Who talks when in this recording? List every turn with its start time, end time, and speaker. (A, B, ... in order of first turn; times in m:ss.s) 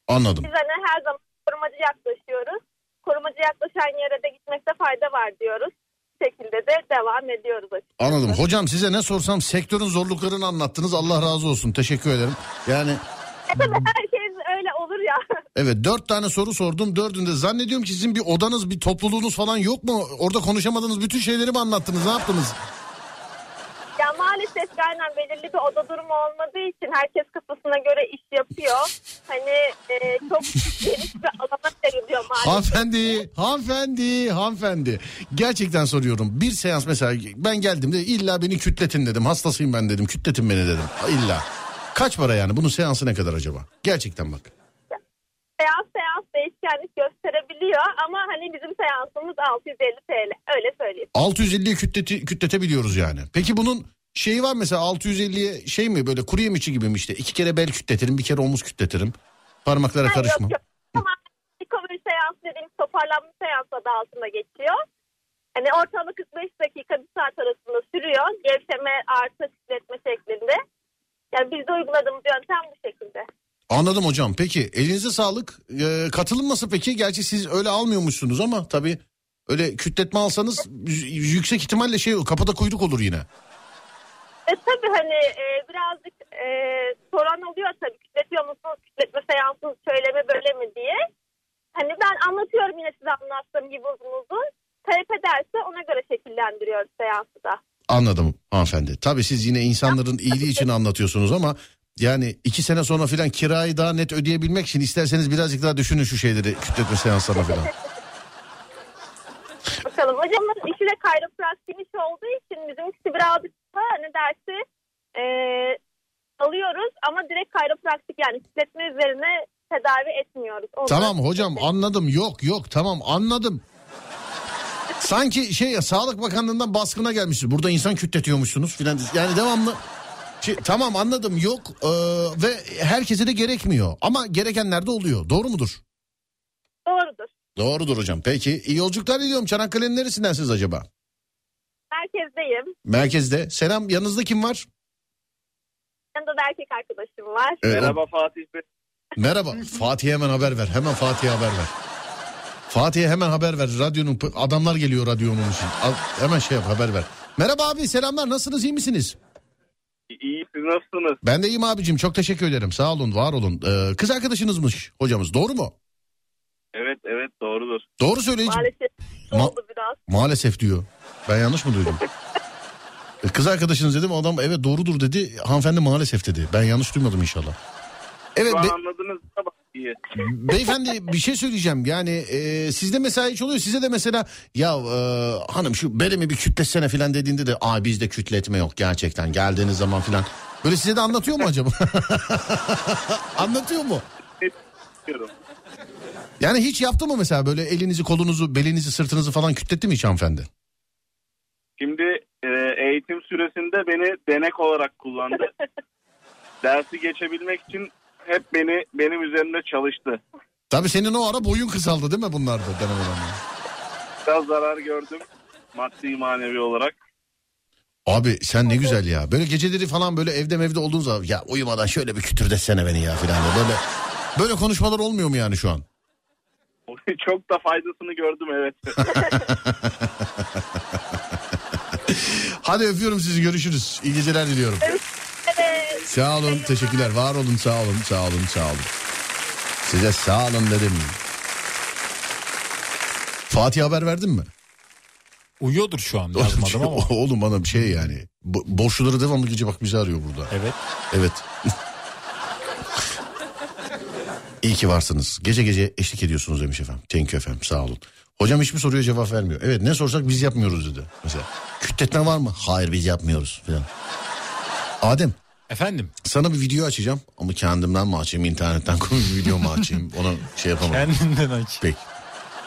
0:00.1-0:00.5 A
0:00.4-0:08.4 B
0:08.0-0:13.0 A
0:13.5-0:15.4 B
0:15.6-0:22.6 A
0:24.0-0:33.2 B
0:32.3-0:44.5 A
0:45.6-0:51.1 B
0:51.2-1:00.6 A
1:00.0-1:04.8 B
1:05.6-1:10.6 B
1:11.3-1:13.3 B
1:13.7-1:23.3 A
1:24.5-1:31.0 B
1:31.8-1:37.6 B
1:37.9-1:47.7 A
1:47.4-1:47.7 B
1:49.8-1:54.6 B
1:55.2-1:55.8 B
1:56.4-2:01.6 B
2:00.9-2:03.6 A
2:05.0-2:09.8 A
2:10.4-2:15.8 A
2:16.9-2:17.3 B
2:17.6-2:20.9 A
2:21.9-2:22.7 B
2:22.9-2:24.7 A
2:26.2-2:27.6 B
2:27.6-2:28.0 A
2:27.6-2:28.6 C
2:29.2-2:31.8 A
2:32.7-2:39.2 A
2:40.1-2:41.2 C
2:41.2-2:45.8 A
2:46.7-2:47.9 C
2:48.0-2:48.7 A
2:48.5-2:50.0 B
2:50.1-2:52.0 A
2:53.2-2:57.6 A
2:58.4-2:58.8 A
2:58.4-3:00.0 C
3:00.2-3:14.1 A
3:15.1-3:15.3 C
3:16.4-3:20.5 A
3:21.8-3:25.5 C
3:26.6-3:30.2 C
3:30.7-3:33.4 A
3:34.3-3:37.0 C
3:38.1-3:43.8 A
3:44.4-3:45.8 A
3:46.9-3:49.3 C
3:49.1-3:51.0 A
3:51.9-3:55.0 A
3:54.8-3:56.9 B
3:56.0-3:58.9 A
3:59.8-4:01.2 A
4:03.5-4:04.5 A
4:05.6-4:07.1 D
4:06.4-4:10.5 A
4:10.5-4:10.8 D
4:11.1-4:11.5 A
4:14.6-4:23.9 A
4:25.0-4:25.4 A
4:25.7-4:26.1 D
4:26.2-4:31.1 A
4:30.8-4:31.9 D
4:31.8-4:32.1 A